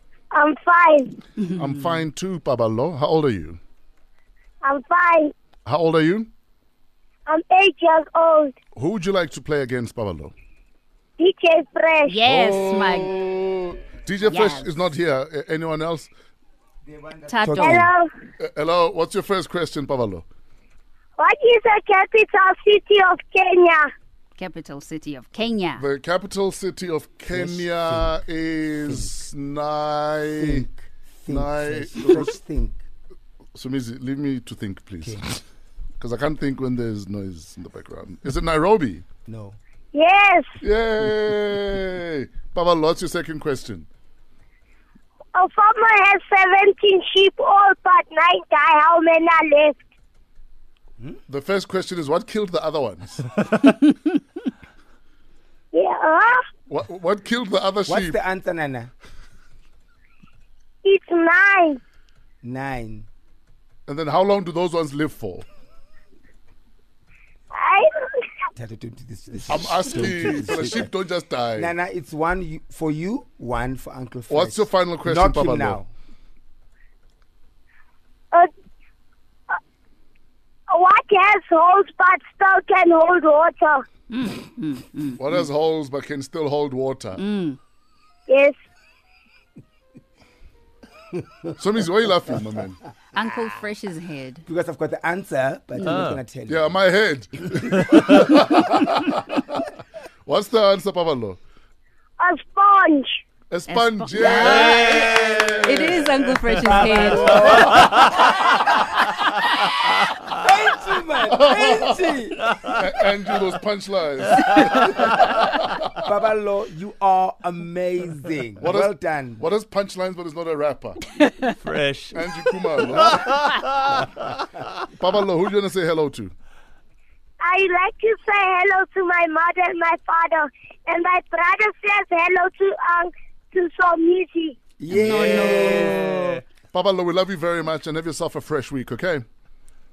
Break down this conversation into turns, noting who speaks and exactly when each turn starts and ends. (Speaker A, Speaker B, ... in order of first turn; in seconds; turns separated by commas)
Speaker A: 0.3-1.1, Speaker B: 1.5-3.6, Speaker A: 4.6-5.3, Speaker B: 5.7-6.3, Speaker A: 7.3-8.5, Speaker B: 8.8-10.3, Speaker A: 11.2-12.2, Speaker C: 12.1-13.1, Speaker B: 12.3-16.1, Speaker C: 14.2-14.8, Speaker D: 16.9-17.9, Speaker C: 17.3-17.9, Speaker A: 17.6-18.1, Speaker B: 18.4-20.2, Speaker A: 21.2-23.9, Speaker C: 24.4-25.8, Speaker B: 25.8-30.7, Speaker D: 27.3-28.1, Speaker D: 28.9-29.1, Speaker D: 30.4-32.8, Speaker B: 31.3-32.4, Speaker B: 33.5-35.4, Speaker B: 36.0-39.0, Speaker D: 39.3-39.6, Speaker A: 39.9-40.5, Speaker B: 40.6-43.9, Speaker A: 45.4-49.8, Speaker B: 51.3-53.3, Speaker A: 55.7-56.4, Speaker B: 56.7-58.2, Speaker D: 57.9-58.9, Speaker A: 60.9-61.8, Speaker D: 62.4-63.1, Speaker B: 63.9-65.5, Speaker A: 67.5-68.3, Speaker D: 68.6-70.9, Speaker B: 69.5-71.7, Speaker D: 71.6-75.9, Speaker B: 74.3-75.8, Speaker A: 80.7-83.9, Speaker C: 84.1-85.2, Speaker B: 85.2-87.2, Speaker C: 87.2-87.6, Speaker A: 88.3-88.6, Speaker B: 91.6-92.8, Speaker C: 93.1-94.4, Speaker D: 94.5-96.8, Speaker E: 95.8-96.2, Speaker B: 96.5-99.7, Speaker B: 100.2-101.4, Speaker A: 102.2-103.2, Speaker B: 103.5-106.2, Speaker C: 103.7-107.6, Speaker E: 104.5-105.7, Speaker E: 106.6-108.3, Speaker D: 106.7-108.3, Speaker B: 107.3-107.7, Speaker D: 110.3-112.5, Speaker B: 111.3-112.1, Speaker B: 112.7-115.8, Speaker D: 115.9-119.4, Speaker B: 118.6-121.1, Speaker E: 121.6-124.7, Speaker B: 122.1-123.3, Speaker B: 124.8-126.3, Speaker A: 127.4-134.6, Speaker D: 134.8-136.4, Speaker C: 134.9-136.0, Speaker E: 135.2-136.4, Speaker B: 136.7-139.2